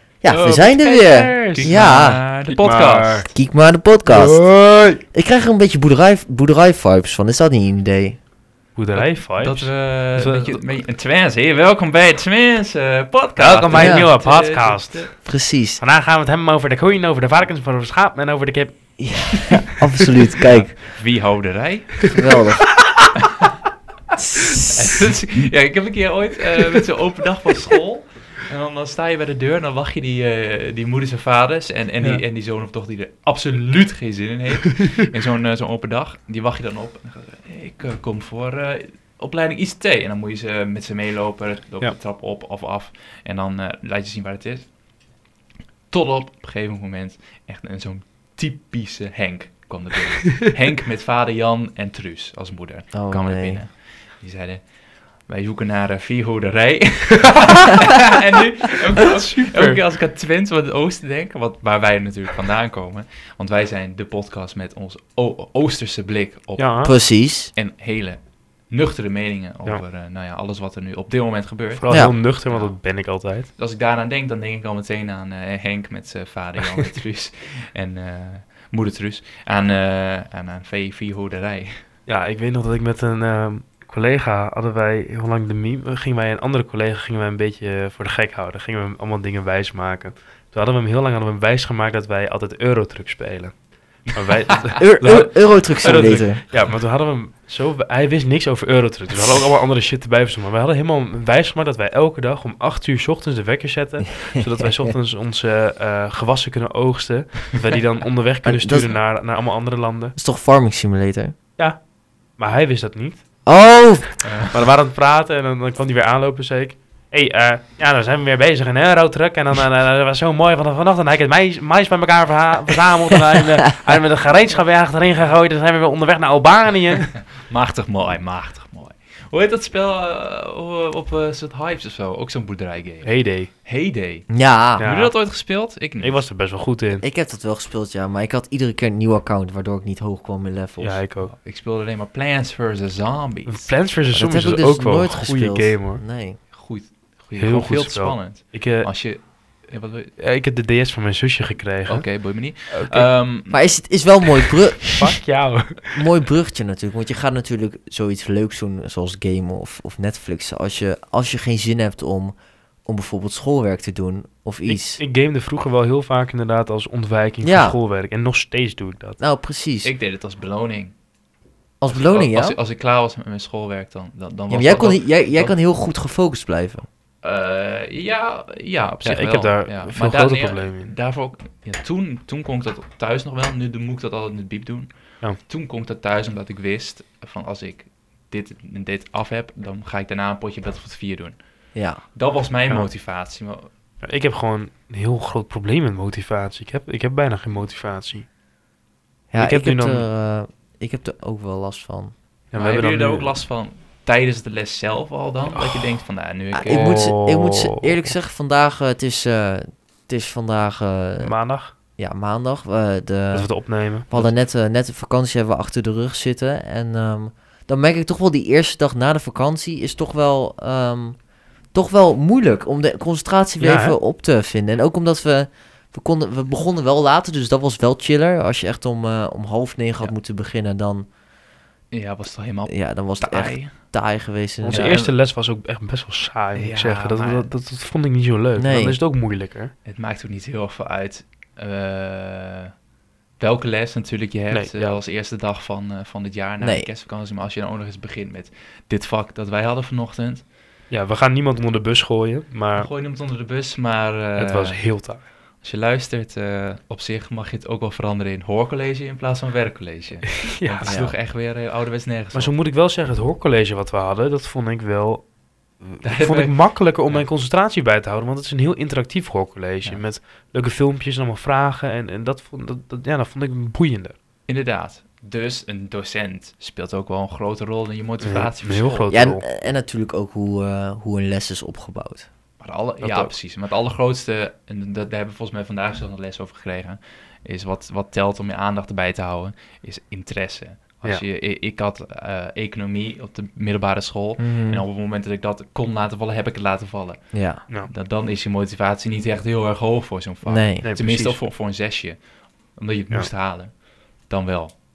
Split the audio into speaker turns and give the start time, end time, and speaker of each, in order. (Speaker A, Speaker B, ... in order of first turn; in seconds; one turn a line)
Speaker A: 0.2-2.2
Speaker B: 0.3-3.3
Speaker C: 1.5-3.2
Speaker A: 3.3-4.4
Speaker B: 4.0-5.0
Speaker A: 5.1-8.2
Speaker B: 8.8-10.6
Speaker C: 8.9-15.1
Speaker B: 13.4-15.1
Speaker A: 13.7-14.1
Speaker A: 15.2-15.8
Speaker B: 15.8-18.8
Speaker A: 19.0-20.8
Speaker B: 19.3-20.1
Speaker C: 20.3-22.2
Speaker A: 22.1-22.7
Speaker B: 22.2-23.1
Speaker C: 23.2-23.5
Speaker A: 24.2-25.0
Speaker C: 24.7-44.7
Speaker C: 45.9-54.6
Speaker A: 52.9-53.6
Speaker C: 55.3-66.9
Speaker B: 58.7-59.8
Speaker B: 66.6-66.9
Speaker A: 66.8-67.5
Speaker C: 67.5-68.2
Speaker C: 68.7-72.8
Speaker B: 71.8-73.5
Speaker C: 73.6-81.8
Speaker B: 82.1-93.5
Speaker B: 94.1-110.2
Speaker C: 94.1-94.8
Speaker A: 94.8-96.4
Speaker A: 104.3-104.7
Speaker A: 108.4-108.9
Speaker A: 110.2-111.3
Speaker B: 112.4-113.2
Speaker A: 113.5-114.2
Speaker C: 114.2-114.5
Speaker B: 114.5-127.2
Speaker C: 127.4-136.2
Speaker B: 133.0-133.5
Speaker A: 134.3-134.8
Speaker B: 134.8-135.2
Speaker B: 136.0-137.0
Speaker A: 137.0-141.0
Speaker B: 140.8-141.3
Speaker C: 141.2-143.7
Speaker B: 143.5-146.0
Speaker A: 144.1-146.4
Speaker C: 146.5-150.1
Speaker B: 147.4-148.9
Speaker B: 150.2-152.1
Speaker C: 151.9-153.6
Speaker B: 152.7-153.1
Speaker A: 153.5-154.9
Speaker B: 155.0-156.0
Speaker A: 155.9-165.0
Speaker B: 164.7-169.2
Speaker A: 167.4-167.8
Speaker A: 169.2-169.9
Speaker C: 169.8-170.9
Speaker A: 171.8-172.6
Speaker C: 171.9-175.5
Speaker A: 174.5-176.9
Speaker C: 177.2-191.4
Speaker B: 179.0-180.9
Speaker A: 191.8-192.0
Speaker C: 192.1-193.7
Speaker B: 194.0-198.3
Speaker A: 199.3-202.1
Speaker B: 199.4-200.1
Speaker B: 202.5-203.4
Speaker C: 202.6-207.1
Speaker B: 205.5-205.9
Speaker A: 206.5-211.3
Speaker B: 206.7-207.9
Speaker B: 211.2-211.7
Speaker A: 212.0-221.2
Speaker B: 213.3-214.3
Speaker A: 221.7-231.1
Speaker B: 223.6-224.0
Speaker C: 231.9-233.7
Speaker A: 232.7-235.0
Speaker B: 234.6-239.7
Speaker C: 234.7-235.1
Speaker C: 236.6-237.5
Speaker A: 238.6-239.0
Speaker C: 239.8-242.7
Speaker C: 243.4-250.4
Speaker B: 244.5-245.0
Speaker A: 246.6-246.9
Speaker B: 250.9-252.9
Speaker C: 252.8-254.9
Speaker B: 254.4-255.2
Speaker C: 255.6-262.5
Speaker B: 260.5-261.0
Speaker A: 260.9-261.1
Speaker B: 262.3-265.2
Speaker B: 265.8-274.2
Speaker C: 266.0-267.3
Speaker C: 274.5-279.1
Speaker B: 278.2-279.4
Speaker A: 279.1-282.3
Speaker C: 282.6-302.2
Speaker B: 283.0-283.3
Speaker A: 294.4-294.8
Speaker A: 297.3-297.6
Speaker A: 300.4-300.9
Speaker B: 300.8-301.4
Speaker C: 302.8-304.7